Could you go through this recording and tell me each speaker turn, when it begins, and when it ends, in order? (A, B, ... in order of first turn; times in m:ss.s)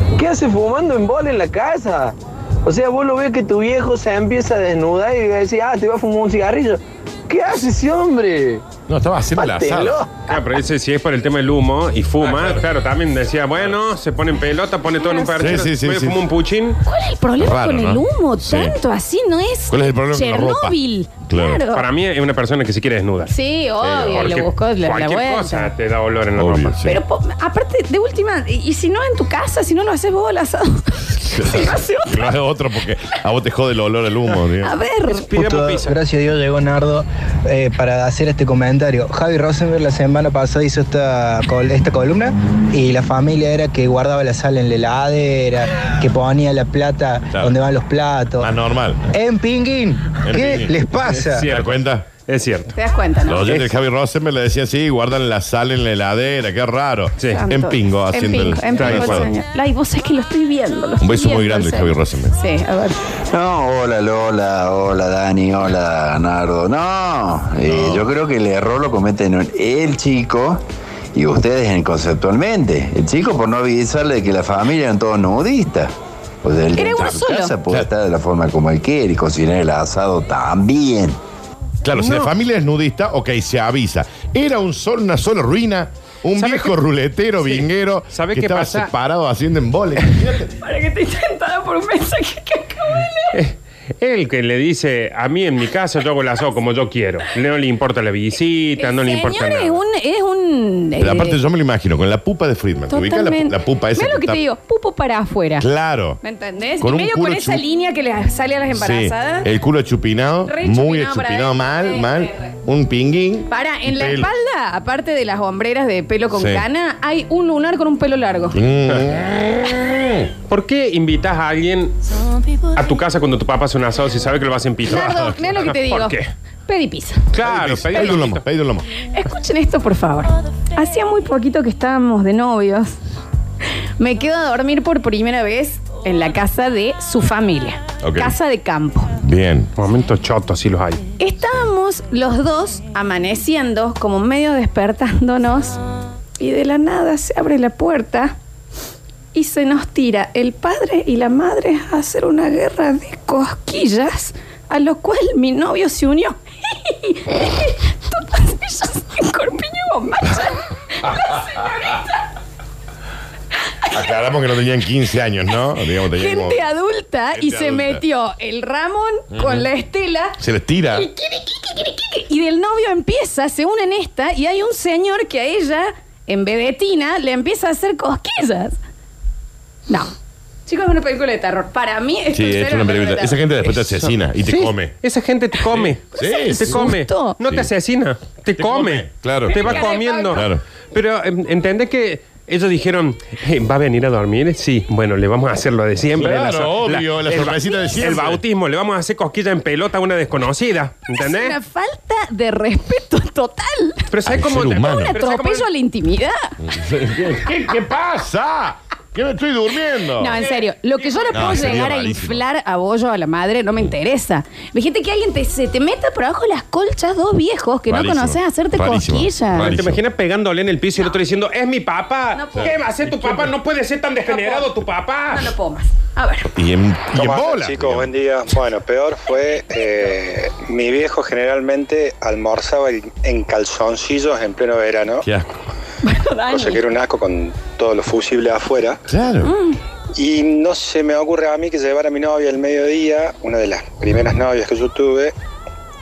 0:00.2-0:08.6 A
0:08.9-0:10.0 B
0:09.4-0:10.2 A
0:10.3-0:16.8 C
0:12.2-0:12.6 B
0:15.0-0:15.4 D
0:15.4-0:16.2 B
0:16.8-0:21.8 D
0:17.4-0:18.8 B
0:19.7-0:20.8 B
0:21.3-0:21.6 B
0:21.7-0:23.3 C
0:23.3-0:25.7 D
0:23.8-0:24.4 B
0:24.1-0:26.8 C
0:26.4-0:27.0 B
0:26.8-0:32.3 D
0:31.2-0:34.7 B
0:34.6-0:35.3 D
0:35.1-0:35.9 C
0:35.3-0:48.5 E
0:48.4-0:49.1 B
0:49.1-0:51.5 E
0:50.2-0:50.7 B
0:51.1-0:52.7 C
0:51.4-0:52.0 B
0:52.7-0:53.5 D
0:53.3-0:59.3 B
0:57.3-1:03.0 D
0:58.8-0:59.3 C
1:01.0-1:02.4 B
1:03.3-1:10.6 F
1:07.6-1:08.1 B
1:11.1-1:15.9 F
1:16.4-1:21.2 F
1:16.8-1:17.5 D
1:17.0-1:17.9 B
1:21.8-1:30.5 B
1:21.9-1:22.3 C
1:26.4-1:26.8 C
1:27.4-1:28.9 C
1:30.6-1:33.3 D
1:33.3-1:39.8 C
1:38.8-1:41.4 D
1:41.0-1:44.4 B
1:42.9-1:45.7 D
1:45.6-1:46.2 B
1:46.2-1:49.5 D
1:46.8-1:47.6 B
1:48.7-1:54.3 B
1:50.4-1:52.5 D
1:53.5-1:58.6 D
1:56.3-1:56.6 B
1:58.5-2:00.3 B
2:00.5-2:01.9 C
2:02.7-2:06.3 C
2:04.9-2:06.2 D
2:06.7-2:07.3 D
2:07.3-2:08.4 C
2:07.4-2:08.8 B
2:09.1-2:13.0 D
2:14.0-2:19.1 D
2:18.0-2:18.4 B
2:19.2-2:19.7 B
2:19.8-2:21.0 C
2:21.2-2:25.8 D
2:26.4-2:28.3 D
2:29.3-2:42.2 D
2:43.9-2:46.6 B
2:46.1-2:50.4 D
2:47.3-2:48.0 B
2:49.3-2:49.7 B
2:50.4-2:51.1 B
2:50.9-2:58.8 D
3:00.7-3:03.5 D
3:02.3-3:04.9 B
3:04.4-3:21.6 C
3:05.8-3:06.9 B
3:06.1-3:07.4 D
3:08.6-3:10.6 B
3:09.5-3:10.4 D
3:16.1-3:18.4 B
3:21.1-3:24.1 D
3:24.1-3:25.7 C
3:24.2-3:25.1 B
3:24.9-3:26.5 D
3:26.6-3:30.4 B
3:30.2-3:39.7 D
3:31.1-3:31.6 C
3:31.3-3:32.4 B
3:37.9-3:40.0 B
3:39.6-3:45.5 C
3:42.4-3:43.3 D
3:44.2-3:44.7 D
3:45.3-3:46.5 D
3:46.5-3:48.1 B
3:47.1-3:55.2 G
3:55.2-3:55.5 B
3:56.0-3:56.8 D
3:56.5-3:59.0 G
3:59.1-3:59.5 B
3:59.4-3:59.8 D
4:00.1-4:05.3 G